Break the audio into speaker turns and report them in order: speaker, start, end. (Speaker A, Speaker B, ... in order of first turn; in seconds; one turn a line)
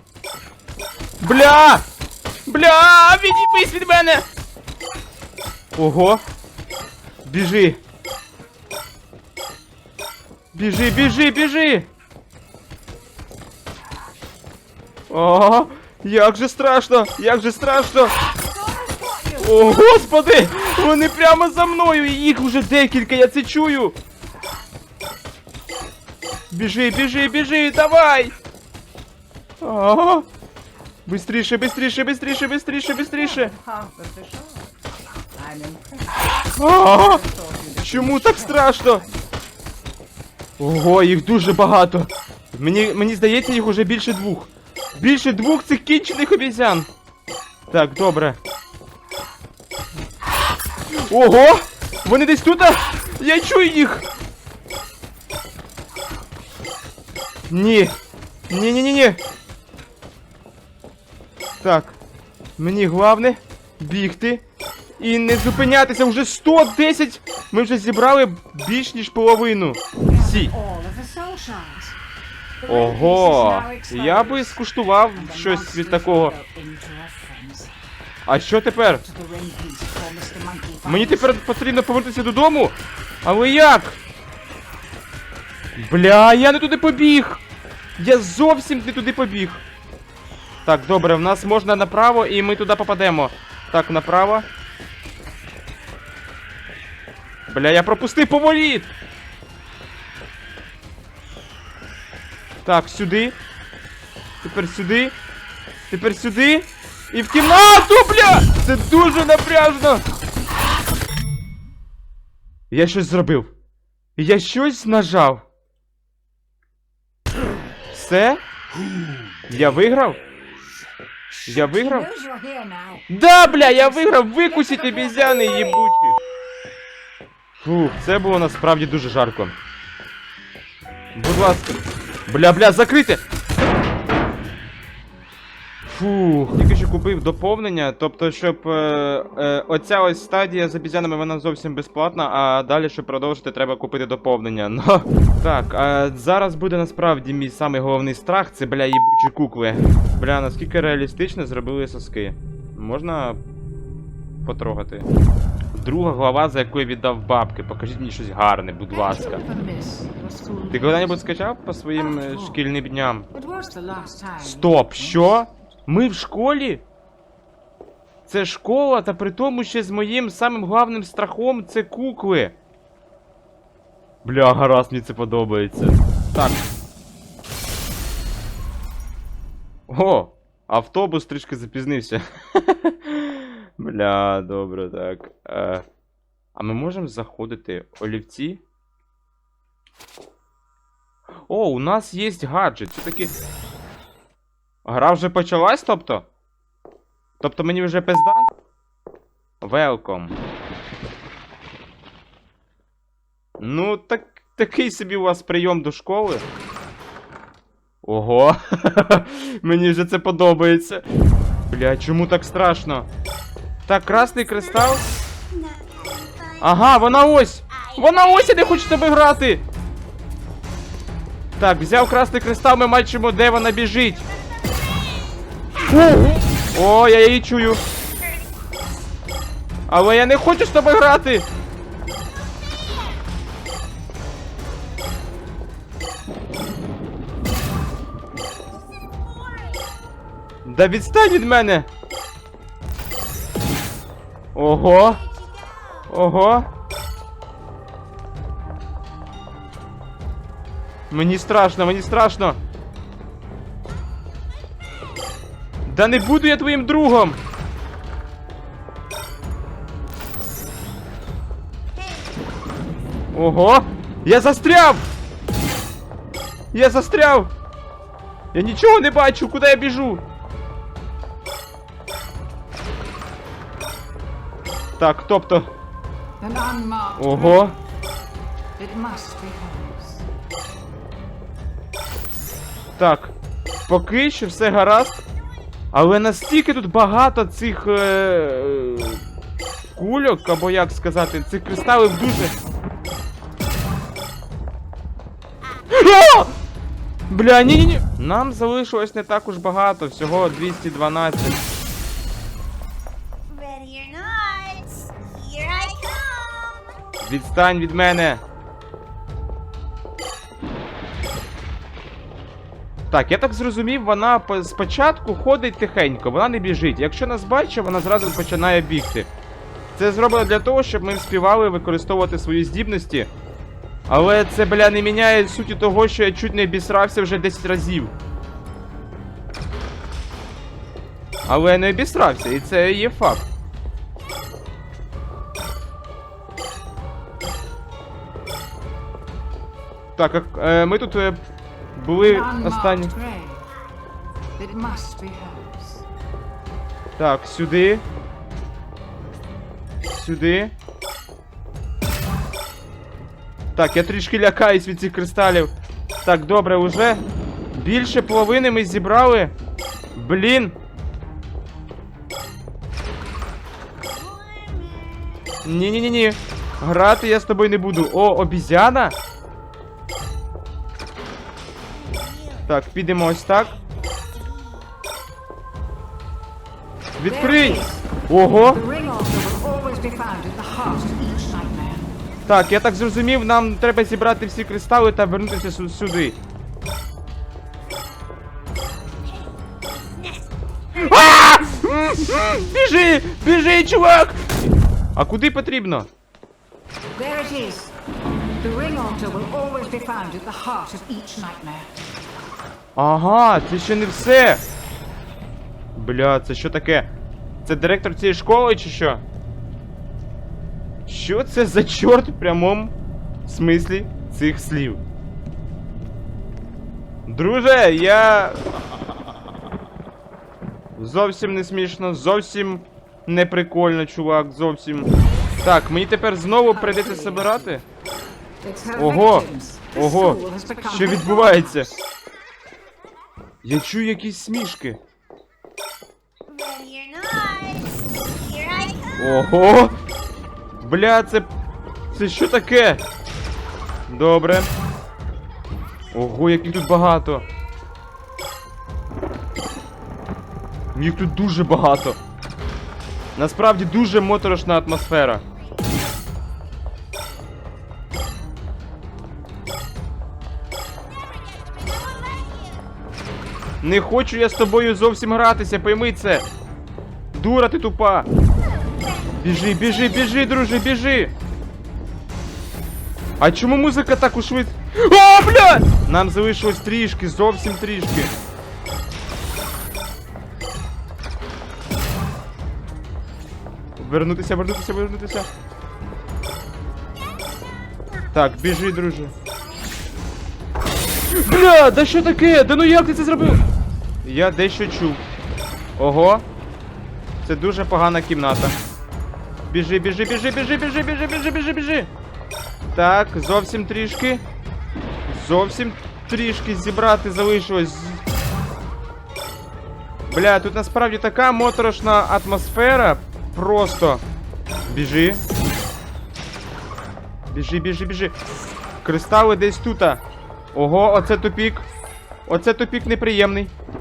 Speaker A: 1.2-1.8
Speaker A: 2.5-4.2
Speaker A: 5.8-6.2
Speaker A: 7.2-7.8
Speaker A: 10.5-11.9
Speaker A: 15.1-18.1
Speaker B: 18.4-20.1
Speaker A: 19.4-24.0
Speaker A: 26.5-28.3
Speaker A: 29.6-30.2
Speaker A: 31.1-33.5
Speaker B: 33.1-39.3
Speaker A: 36.5-37.2
Speaker A: 37.8-39.0
Speaker A: 40.6-46.9
Speaker A: 47.7-48.4
Speaker A: 50.9-54.0
Speaker A: 57.5-58.0
Speaker A: 58.5-59.2
Speaker A: 61.6-62.0
Speaker A: 62.6-64.4
Speaker A: 65.0-70.5
Speaker B: 70.1-72.0
Speaker B: 72.6-74.6
Speaker A: 72.7-76.3
Speaker B: 75.1-77.7
Speaker A: 78.2-79.0
Speaker B: 79.0-81.4
Speaker A: 80.8-84.0
Speaker A: 85.8-87.4
Speaker A: 88.0-89.6
Speaker A: 90.6-94.5
Speaker A: 97.5-98.9
Speaker A: 102.6-103.3
Speaker A: 104.4-105.1
Speaker A: 105.9-110.0
Speaker A: 112.7-113.5
Speaker A: 114.2-115.4
Speaker A: 117.9-118.4
Speaker A: 119.5-120.2
Speaker B: 121.5-125.6
Speaker A: 121.5-122.1
Speaker A: 123.1-126.2
Speaker A: 127.6-129.5
Speaker A: 131.1-133.2
Speaker A: 135.9-153.4
Speaker A: 154.4-155.1
Speaker A: 155.7-159.4
Speaker B: 158.9-161.2
Speaker A: 160.7-163.3
Speaker B: 161.9-162.6
Speaker B: 163.3-165.5
Speaker A: 164.4-166.8
Speaker A: 168.3-172.5
Speaker A: 174.2-176.6
Speaker A: 179.9-185.8
Speaker A: 186.5-188.6
Speaker A: 191.5-193.3
Speaker A: 194.8-196.3
Speaker A: 197.4-198.5
Speaker A: 199.6-200.4
Speaker A: 203.6-206.4
Speaker A: 208.0-211.0
Speaker A: 211.7-213.1
Speaker A: 213.8-215.0
Speaker C: 215.5-216.5
Speaker A: 216.6-219.6
Speaker A: 221.6-224.3
Speaker C: 224.5-225.2
Speaker A: 226.0-227.8
Speaker A: 229.9-231.5
Speaker C: 232.7-233.2
Speaker C: 239.0-239.8
Speaker A: 240.6-241.9
Speaker A: 244.5-245.2
Speaker C: 245.5-246.0
Speaker A: 246.1-246.7
Speaker A: 251.1-252.6
Speaker A: 255.8-257.4
Speaker A: 263.3-265.0
Speaker A: 266.7-267.5
Speaker A: 268.5-270.2
Speaker A: 275.0-275.7
Speaker B: 276.4-277.8
Speaker A: 277.2-277.7
Speaker B: 278.8-280.3
Speaker A: 283.0-283.3
Speaker A: 283.9-285.2
Speaker A: 285.9-289.2
Speaker A: 289.9-292.5
Speaker A: 295.9-296.5
Speaker A: 297.3-301.6
Speaker C: 303.5-306.9
Speaker A: 307.2-308.4
Speaker A: 313.1-319.3
Speaker A: 319.9-323.3
Speaker A: 324.1-328.1
Speaker A: 331.4-333.5
Speaker A: 340.2-341.4
Speaker A: 341.9-343.1
Speaker B: 342.1-343.7
Speaker B: 344.6-346.1
Speaker A: 347.2-348.0
Speaker A: 350.1-350.7
Speaker A: 353.8-355.7
Speaker A: 356.2-357.2
Speaker A: 357.7-359.5
Speaker A: 360.1-360.8
Speaker C: 364.1-365.6
Speaker A: 365.6-369.1
Speaker C: 372.1-372.5
Speaker A: 372.7-373.8
Speaker C: 374.3-374.9
Speaker A: 377.2-378.8
Speaker B: 377.2-378.1
Speaker B: 378.6-382.1
Speaker A: 382.5-386.4
Speaker C: 390.1-390.4
Speaker A: 390.9-394.5
Speaker A: 395.1-396.1
Speaker B: 397.1-397.9
Speaker B: 398.6-401.9
Speaker A: 402.9-404.6
Speaker A: 405.9-407.1
Speaker A: 407.6-409.2
Speaker A: 411.1-412.9
Speaker A: 413.4-415.0
Speaker A: 417.3-418.6
Speaker A: 421.0-427.8
Speaker B: 426.7-427.7
Speaker B: 428.6-432.0
Speaker A: 428.9-431.9
Speaker A: 433.6-435.0
Speaker C: 436.5-439.1
Speaker A: 439.1-439.9
Speaker A: 440.8-441.5
Speaker A: 442.1-443.0
Speaker A: 444.1-444.7
Speaker A: 446.1-447.4
Speaker A: 450.9-452.2
Speaker A: 453.4-455.4
Speaker C: 461.2-462.8
Speaker A: 463.8-466.4
Speaker A: 467.3-468.3
Speaker A: 469.4-471.3
Speaker A: 473.4-478.3
Speaker A: 484.0-485.5
Speaker A: 488.3-489.3
Speaker A: 491.3-493.6
Speaker A: 494.2-495.2
Speaker A: 496.0-496.4
Speaker A: 497.4-498.7
Speaker A: 499.7-502.1
Speaker A: 502.9-504.4
Speaker A: 505.3-508.2
Speaker A: 510.3-514.2
Speaker A: 514.9-515.4
Speaker A: 517.5-518.3
Speaker A: 519.0-520.2
Speaker A: 520.7-521.9
Speaker A: 522.5-523.7